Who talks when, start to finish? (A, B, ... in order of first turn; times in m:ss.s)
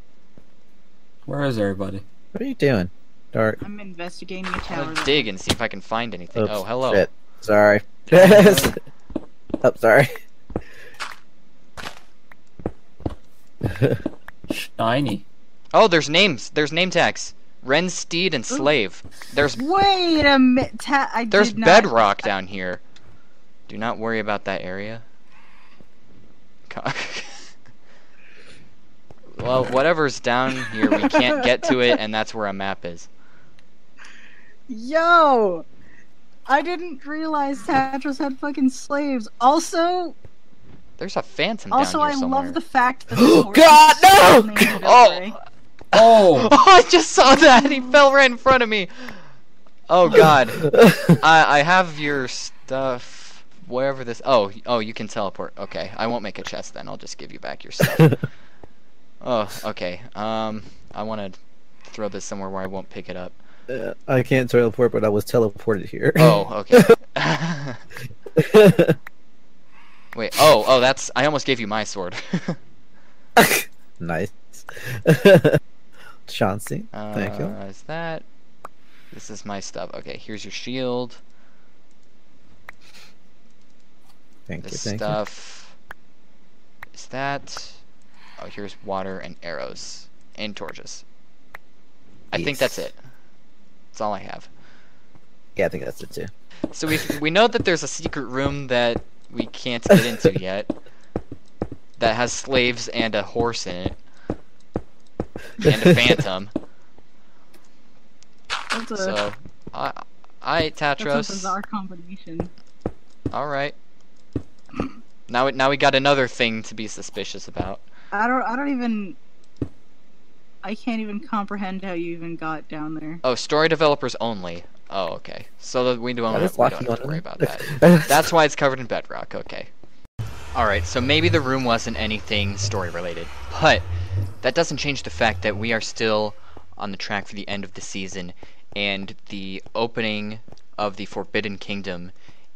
0:01.3-0:02.0 A
0:02.3-0:03.6 B
0:03.6-0:05.3 C
0:04.7-0:07.1 D
0:06.3-0:08.8 B
0:08.2-0:08.8 D
0:09.6-0:10.2 B
0:13.7-0:14.0 B
0:14.5-0:15.2 A
0:15.7-0:19.6 D
0:19.6-0:21.9 C
0:21.3-0:22.8 D
0:23.7-0:25.0 D
0:26.7-0:27.5 D
0:29.3-0:33.1 D
0:30.8-0:31.3 C
0:34.7-0:35.6 C
0:36.5-0:40.2 C
0:41.0-0:42.6 D
0:41.7-0:45.4 C
0:43.2-0:44.6 B
0:44.8-0:45.3 D
0:45.9-0:46.5 A
0:46.3-0:49.2 D
0:49.9-0:58.2 D
0:50.1-0:51.2 B
0:59.2-1:03.4 D
1:03.7-1:06.9 B
1:06.2-1:07.8 D
1:08.4-1:09.0 B
1:10.1-1:12.6 D
1:13.4-1:15.6 B
1:16.3-1:17.5 B
1:16.9-1:18.3 D
1:19.1-1:21.2 D
1:24.5-1:25.2 B
1:24.6-1:25.8 D
1:26.9-1:27.8 D
1:28.4-1:31.0 D
1:32.3-1:33.0 D
1:32.4-1:32.8 B
1:33.9-1:34.5 D
1:35.6-1:36.3 B
1:36.7-1:40.7 D
1:42.0-1:44.0 D
1:45.6-1:46.5 D
1:45.6-1:46.2 B
1:48.7-1:49.2 C
1:49.0-1:51.6 D
1:51.0-1:52.5 C
1:53.3-1:53.8 D
1:55.3-1:57.8 D
1:58.1-1:59.2 C
2:00.6-2:03.2 C
2:03.2-2:09.7 D
2:06.3-2:08.2 B
2:10.6-2:13.9 D
2:14.4-2:22.1 D